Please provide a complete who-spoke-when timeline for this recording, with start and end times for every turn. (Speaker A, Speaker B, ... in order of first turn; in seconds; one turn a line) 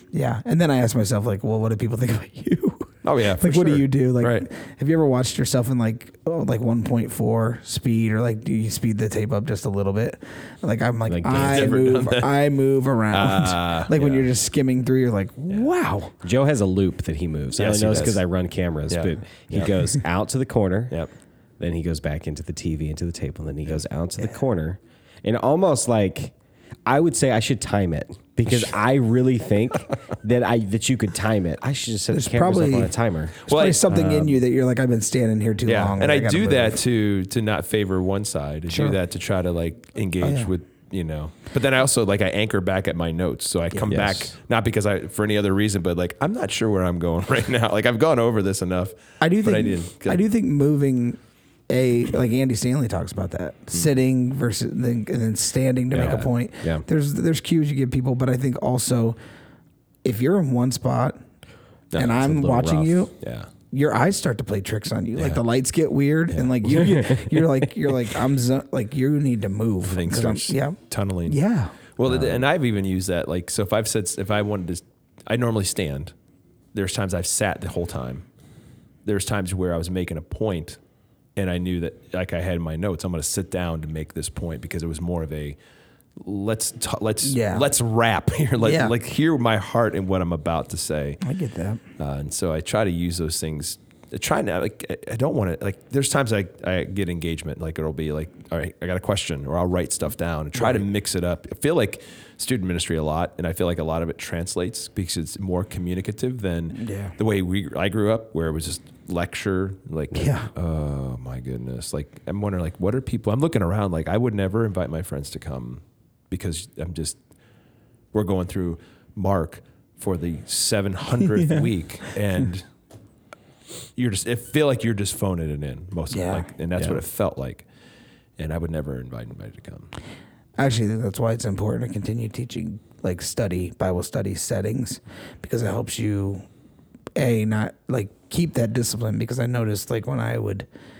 Speaker A: 0.1-16.1
Speaker B: 3.0-4.5
Speaker C: 11.1-11.7
Speaker B: 11.3-12.4
Speaker B: 13.1-14.2
Speaker C: 16.2-20.9
Speaker B: 17.6-18.2
Speaker B: 18.9-19.9
Speaker C: 21.6-26.3
Speaker C: 26.9-33.5
Speaker A: 32.1-36.8
Speaker B: 33.5-34.3
Speaker B: 35.6-50.2
Speaker A: 38.7-39.0
Speaker A: 40.2-40.5
Speaker A: 43.7-44.1
Speaker C: 43.9-44.3
Speaker A: 49.2-59.2
Speaker B: 55.9-56.3
Speaker C: 55.9-56.8
Speaker A: 60.0-61.2
Speaker B: 61.9-63.5
Speaker A: 61.9-63.1
Speaker A: 63.7-71.8
Speaker B: 65.2-65.4
Speaker B: 69.8-71.4
Speaker B: 72.0-76.1
Speaker C: 72.0-72.4
Speaker B: 76.7-78.2
Speaker B: 79.0-80.8
Speaker B: 81.3-85.6
Speaker B: 86.2-91.2
Speaker A: 87.2-87.7
Speaker A: 88.6-88.9
Speaker A: 91.2-91.8
Speaker B: 92.0-117.2
Speaker A: 100.5-100.8
Speaker A: 106.8-107.1
Speaker A: 110.1-110.5
Speaker B: 118.1-122.6
Speaker A: 121.3-121.7
Speaker B: 124.0-127.6
Speaker A: 126.1-126.5
Speaker B: 128.4-129.9
Speaker A: 130.6-136.4
Speaker A: 137.2-140.7